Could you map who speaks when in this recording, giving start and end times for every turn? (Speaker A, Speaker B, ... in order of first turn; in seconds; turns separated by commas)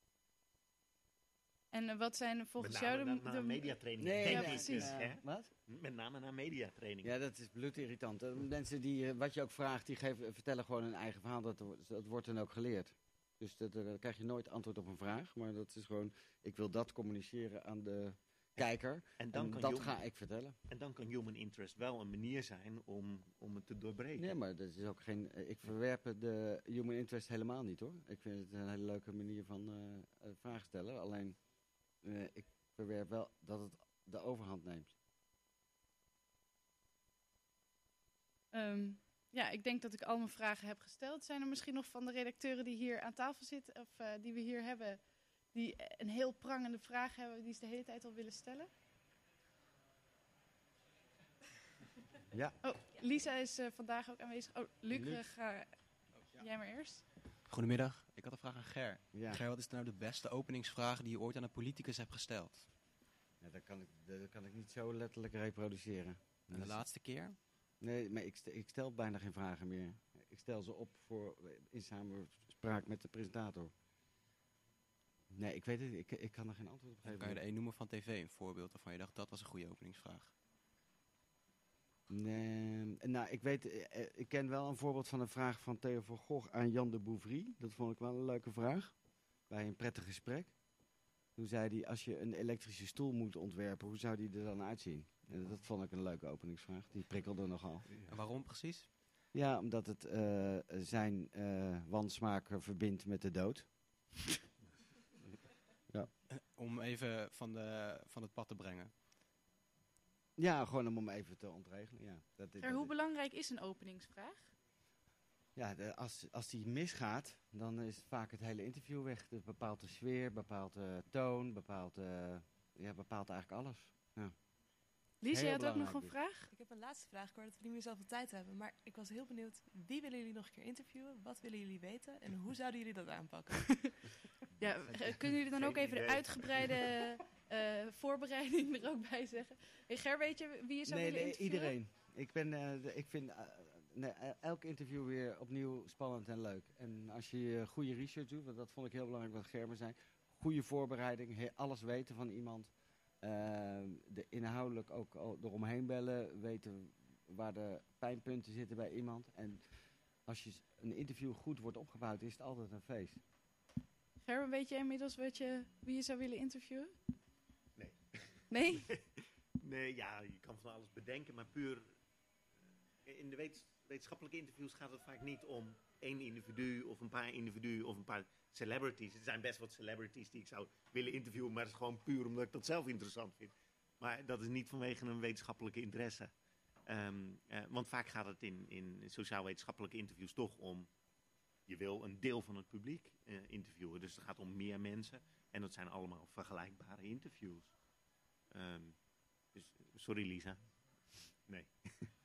Speaker A: 1.7-5.0, Speaker B: 2.6-7.1, Speaker C: 4.0-5.5, Speaker C: 7.0-20.6, Speaker B: 19.2-20.0, Speaker B: 20.7-24.4, Speaker C: 24.2-31.4, Speaker C: 32.0-34.9, Speaker A: 38.5-45.0, Speaker A: 45.5-48.7, Speaker C: 52.3-52.6, Speaker A: 52.6-55.7, Speaker C: 54.9-55.2, Speaker A: 56.3-57.0, Speaker D: 57.5-62.7, Speaker C: 59.1-59.4, Speaker C: 63.4-66.9, Speaker D: 66.5-67.4, Speaker C: 67.8-73.7, Speaker C: 75.3-77.4, Speaker D: 77.0-80.3, Speaker C: 82.1-89.0, Speaker C: 89.5-90.5, Speaker C: 91.4-97.9, Speaker D: 98.0-99.0, Speaker C: 99.3-103.7, Speaker D: 106.3-109.0, Speaker C: 110.4-112.9, Speaker A: 112.6-114.5, Speaker C: 115.6-124.3, Speaker A: 125.2-126.5, Speaker C: 125.3-126.2, Speaker E: 126.5-134.1, Speaker A: 134.6-141.7, Speaker C: 134.9-135.2, Speaker B: 135.6-136.9, Speaker C: 140.9-152.7, Speaker C: 153.2-159.6, Speaker C: 160.3-163.2, Speaker A: 164.2-166.9, Speaker B: 167.8-171.9, Speaker A: 168.5-168.9, Speaker B: 173.1-186.3, Speaker B: 186.9-190.9, Speaker B: 191.7-197.7, Speaker B: 198.5-199.0, Speaker B: 199.5-200.6, Speaker B: 201.5-202.1